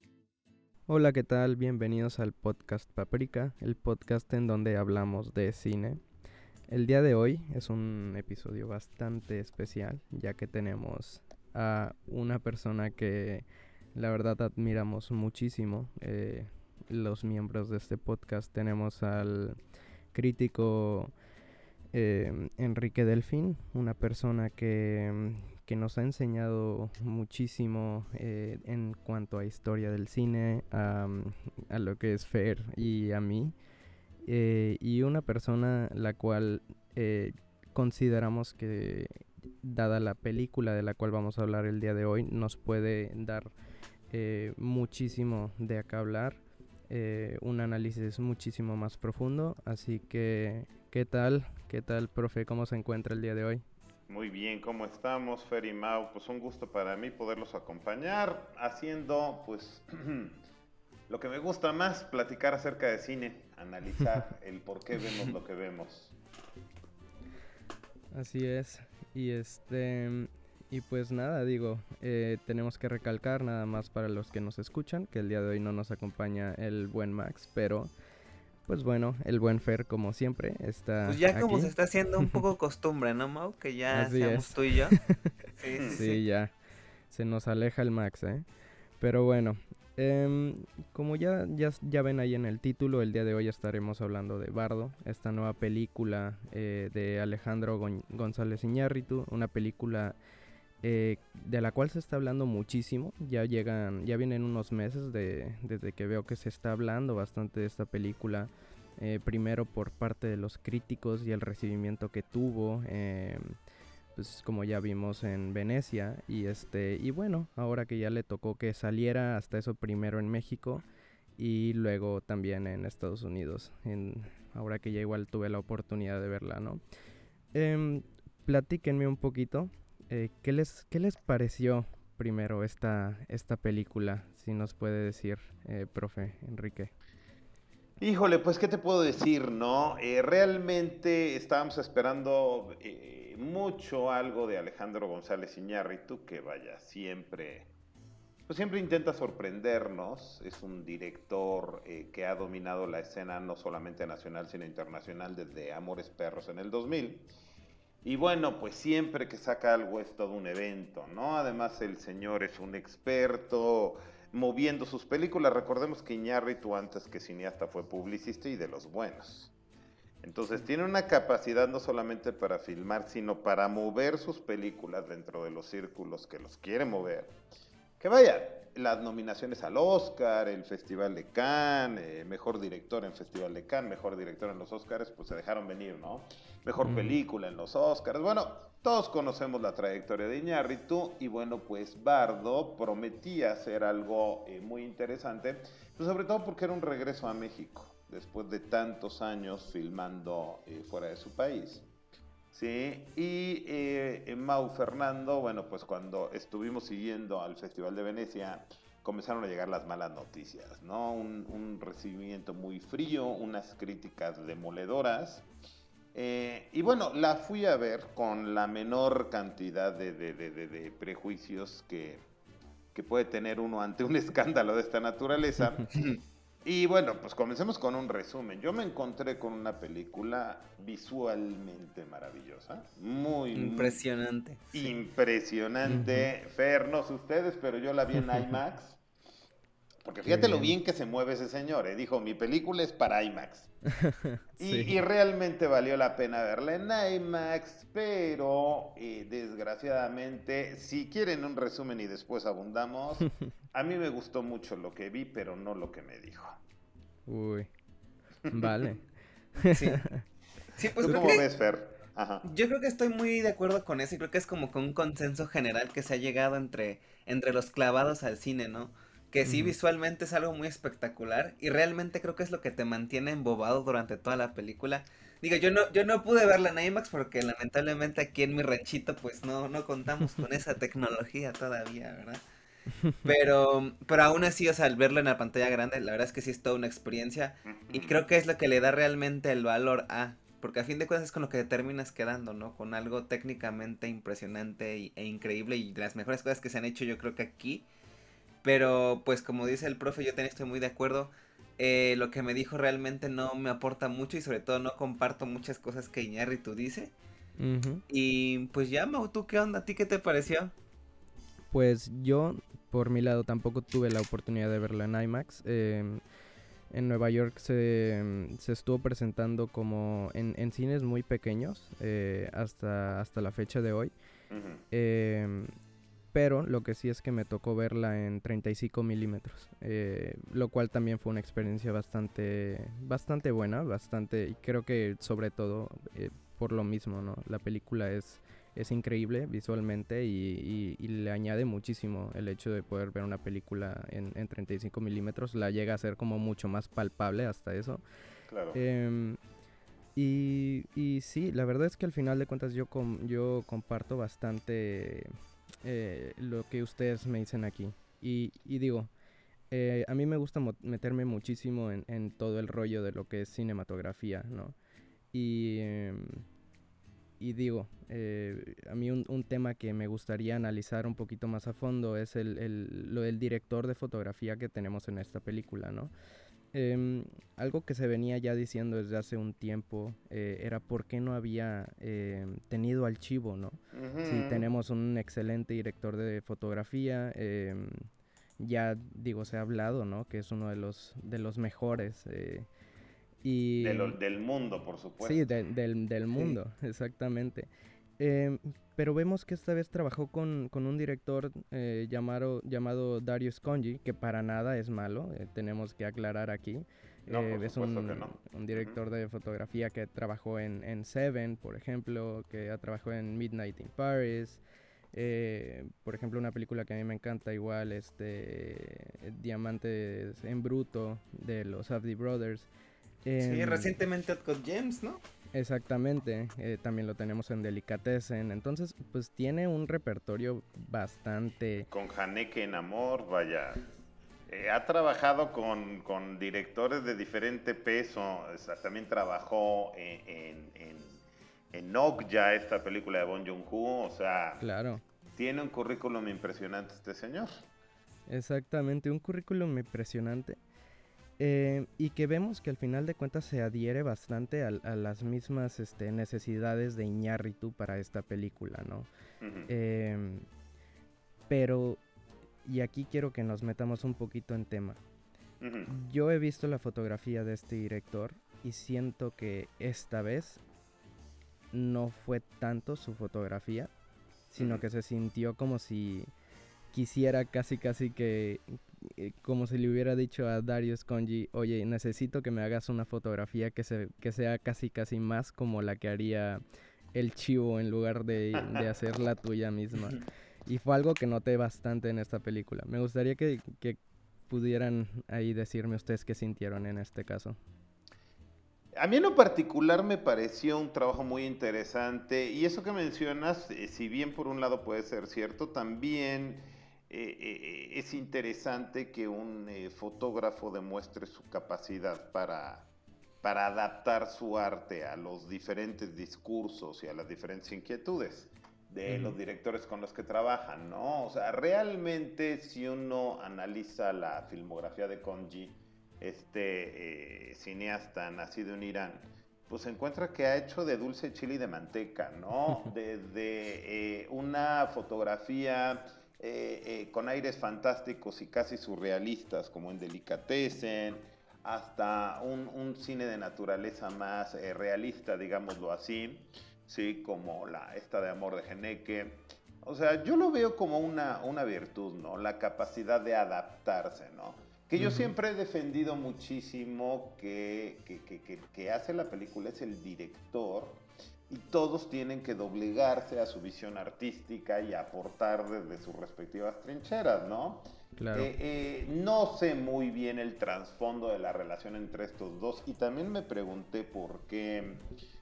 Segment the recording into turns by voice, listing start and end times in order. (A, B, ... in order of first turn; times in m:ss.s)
0:00.9-0:06.0 A
0:06.7-0:19.6 A
0:20.1-0:21.1 A
0:21.9-0:33.5 A
0:34.2-0:43.5 A
0:44.1-0:53.6 A
0:54.1-1:00.4 B
1:01.1-1:06.1 B
1:08.1-1:17.9 A
1:18.7-1:21.7 A
1:21.0-1:26.2 C
1:23.9-1:25.3 A
1:25.9-1:26.6 A
1:27.1-1:28.4 A
1:29.0-1:40.2 A
1:40.8-1:53.5 A
1:54.2-2:00.8 A
2:01.4-2:06.8 A
2:07.5-2:16.9 A
2:18.0-2:27.7 B
2:28.5-2:37.3 B
2:38.0-2:49.5 B
2:50.2-2:57.4 B
2:58.0-3:21.9 B
3:22.5-3:35.4 B
3:36.1-3:42.2 B
3:42.9-3:45.9 B
3:46.6-3:54.0 B
3:53.5-3:54.9 C
3:54.7-3:59.0 B
3:55.8-3:56.3 A
4:00.0-4:03.7 B
4:00.2-4:00.7 A
4:04.0-4:05.0 A
4:04.6-4:16.6 B
4:17.3-4:17.7 A
4:18.5-4:18.9 B
4:18.5-4:20.2 A
4:19.7-4:20.0 C
4:20.8-4:21.4 C
4:21.0-4:22.4 B
4:22.4-4:42.4 C
4:29.4-4:29.7 A
4:43.2-4:57.8 C
4:47.6-4:48.2 B
4:58.6-5:07.1 C
5:07.6-5:08.0 A
5:08.1-5:10.7 C
5:11.7-5:16.2 A
5:16.9-5:24.1 A
5:24.5-5:24.8 B
5:24.9-5:25.7 A
5:26.3-5:48.0 A
5:48.5-5:48.8 B
5:48.7-5:49.4 A
5:50.2-5:55.3 A
5:55.8-5:59.1 A
5:59.7-6:04.8 A
6:05.3-6:06.4 A
6:07.4-6:16.1 A
6:16.7-6:28.1 A
6:23.9-6:24.7 B
6:28.6-6:32.7 A
6:33.4-6:34.2 A
6:33.8-6:35.4 B
6:35.2-6:54.6 A
6:47.3-6:49.0 B
6:55.1-7:02.7 A
7:03.2-7:04.0 A
7:03.4-7:05.2 C
7:05.5-7:11.9 A
7:11.9-7:13.8 B
7:14.5-7:21.2 B
7:21.7-7:24.6 B
7:24.6-7:25.0 A
7:25.4-7:27.6 B
7:28.3-7:30.6 A
7:31.4-7:39.1 A
7:39.4-7:39.7 B
7:39.7-7:40.4 A
7:41.5-7:42.0 A
7:42.6-7:45.0 A
7:45.6-7:45.9 B
7:45.9-7:50.6 A
7:51.7-7:53.9 A
7:54.5-7:56.3 A
7:54.6-7:54.8 B
7:56.9-8:06.6 A
8:07.1-8:17.6 A
8:18.9-8:32.9 B
8:33.4-9:35.0 B
8:39.0-8:39.4 A
9:15.0-9:15.3 A
9:28.2-9:28.5 A